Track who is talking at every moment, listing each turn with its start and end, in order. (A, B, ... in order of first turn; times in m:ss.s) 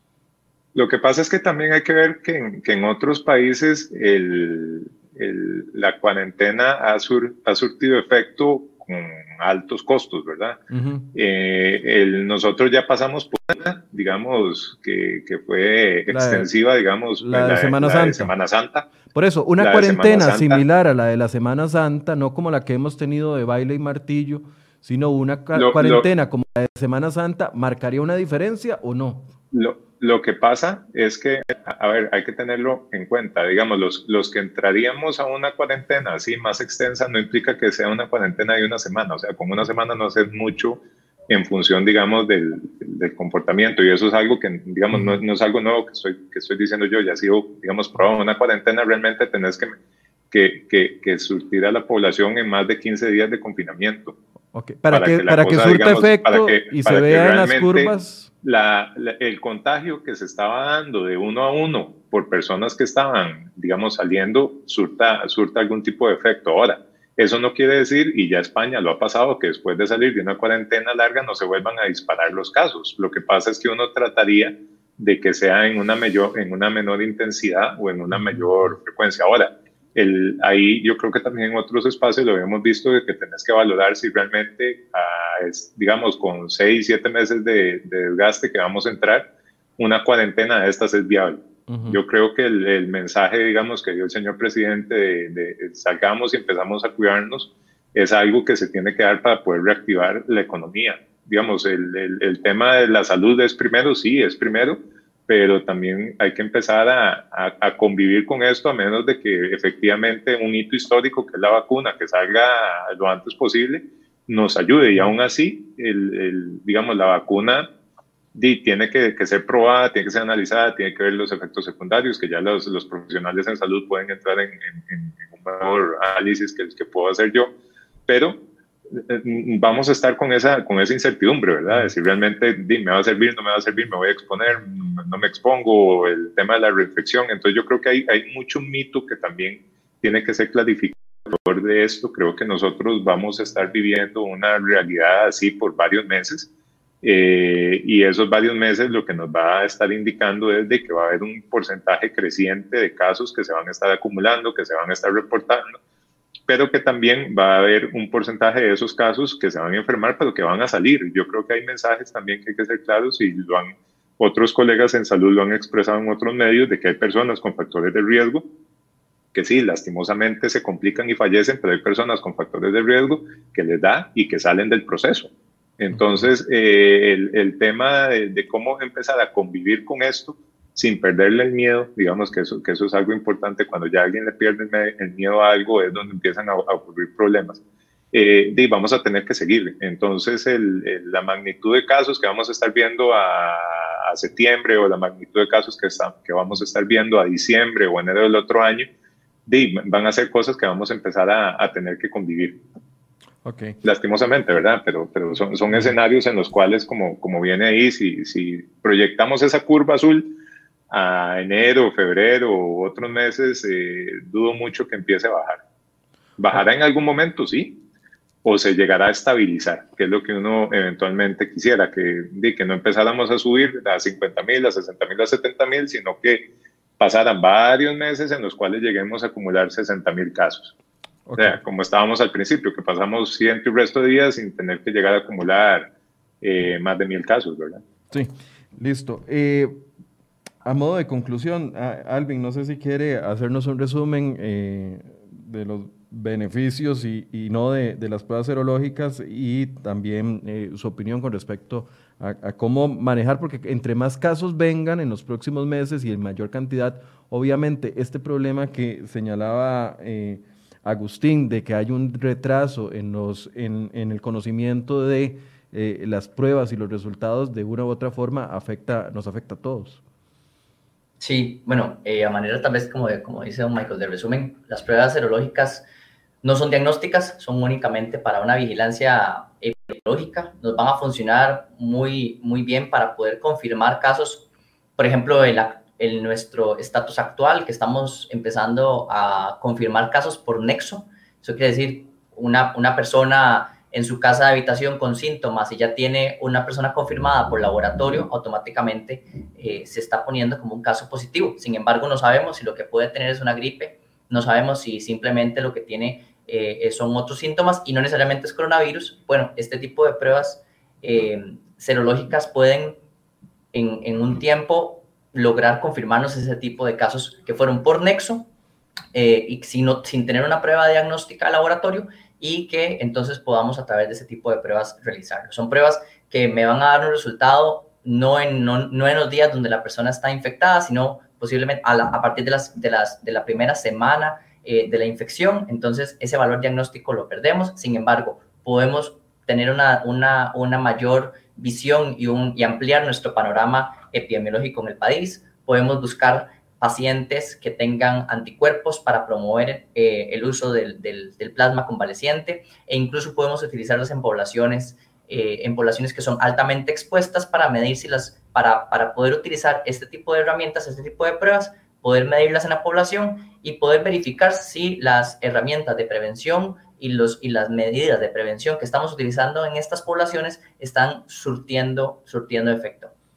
0:00.7-0:10.6 A
0:10.7-0:11.1 B
0:11.1-0:18.9 A
0:16.1-0:16.5 B
0:17.2-0:18.3 B
0:19.1-0:29.2 B
0:19.6-0:20.6 A
0:25.5-0:26.0 A
0:29.5-0:49.8 A
0:44.9-0:45.2 B
0:50.3-0:54.1 A
0:54.5-0:58.3 B
0:54.9-1:57.7 A
1:18.1-1:18.7 B
1:31.7-1:32.0 B
1:58.3-2:07.5 A
2:08.1-2:08.4 A
2:08.9-2:26.5 A
2:27.0-2:35.8 A
2:36.5-2:48.4 A
2:49.3-3:07.6 A
3:08.1-3:18.9 A
3:19.4-3:22.6 A
3:23.4-3:23.8 B
3:23.8-3:30.3 A
3:30.9-3:35.6 A
3:36.4-3:37.8 A
3:38.4-3:46.4 A
3:47.0-3:50.7 A
3:51.2-3:51.6 B
3:51.4-3:55.9 A
3:56.4-3:57.8 A
3:58.1-3:59.8 B
4:00.6-4:30.0 B
4:31.2-4:35.8 C
4:36.4-4:44.4 C
4:45.0-5:13.0 C
5:13.7-5:18.5 C
5:19.1-6:13.1 C